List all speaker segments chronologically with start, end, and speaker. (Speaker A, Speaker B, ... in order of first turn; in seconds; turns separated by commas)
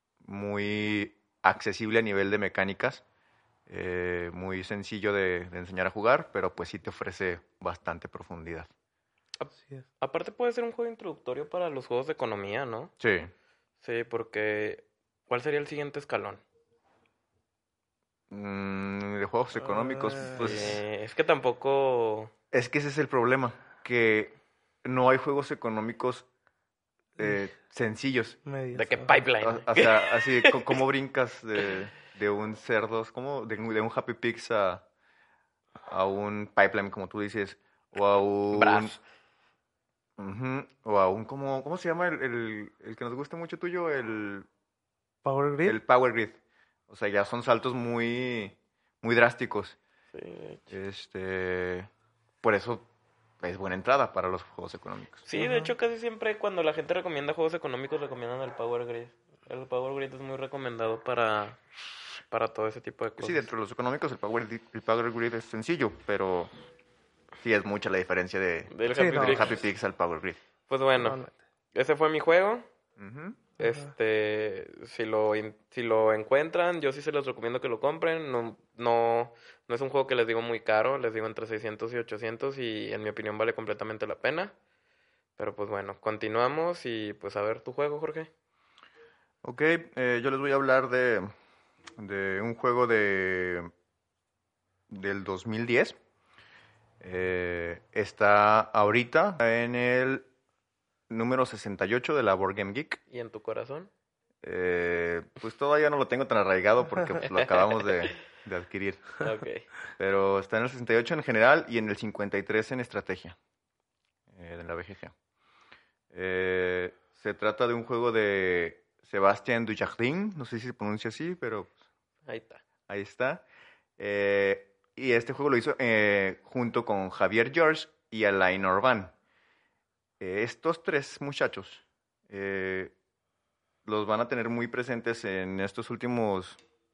Speaker A: 0.2-3.0, Speaker A: 3.7-8.7, Speaker B: 9.4-12.9, Speaker A: 13.0-13.3, Speaker B: 13.8-16.4, Speaker A: 18.3-20.8, Speaker C: 19.7-20.4, Speaker B: 20.2-22.3, Speaker A: 22.5-26.2, Speaker A: 27.2-28.4, Speaker C: 28.4-29.1, Speaker B: 28.7-30.7, Speaker A: 29.4-34.8, Speaker A: 35.9-39.0, Speaker B: 38.5-39.0, Speaker A: 40.2-44.5, Speaker C: 45.2-45.8, Speaker A: 45.6-46.4, Speaker A: 46.9-49.8, Speaker B: 50.1-50.7, Speaker A: 50.7-51.9, Speaker A: 52.4-52.9, Speaker A: 53.4-55.2, Speaker B: 55.2-61.6, Speaker C: 55.4-55.7, Speaker B: 62.3-63.5, Speaker A: 63.2-66.5, Speaker A: 67.4-70.4, Speaker B: 68.7-69.6, Speaker C: 68.9-69.5, Speaker B: 70.7-71.2, Speaker C: 71.0-71.3, Speaker B: 71.7-72.7, Speaker A: 73.0-73.4, Speaker B: 73.6-84.5, Speaker C: 73.6-73.9, Speaker B: 85.4-88.3, Speaker A: 89.4-91.3, Speaker A: 92.0-93.7, Speaker A: 94.9-96.0, Speaker A: 97.0-100.2, Speaker A: 101.1-103.0, Speaker B: 103.1-103.9, Speaker A: 104.4-109.2, Speaker B: 107.3-108.1, Speaker B: 109.2-109.7, Speaker A: 110.0-113.4, Speaker A: 114.3-115.1, Speaker A: 116.1-121.7, Speaker B: 122.2-122.6, Speaker A: 122.9-123.4, Speaker A: 124.0-129.1, Speaker A: 130.2-132.9, Speaker A: 133.8-136.6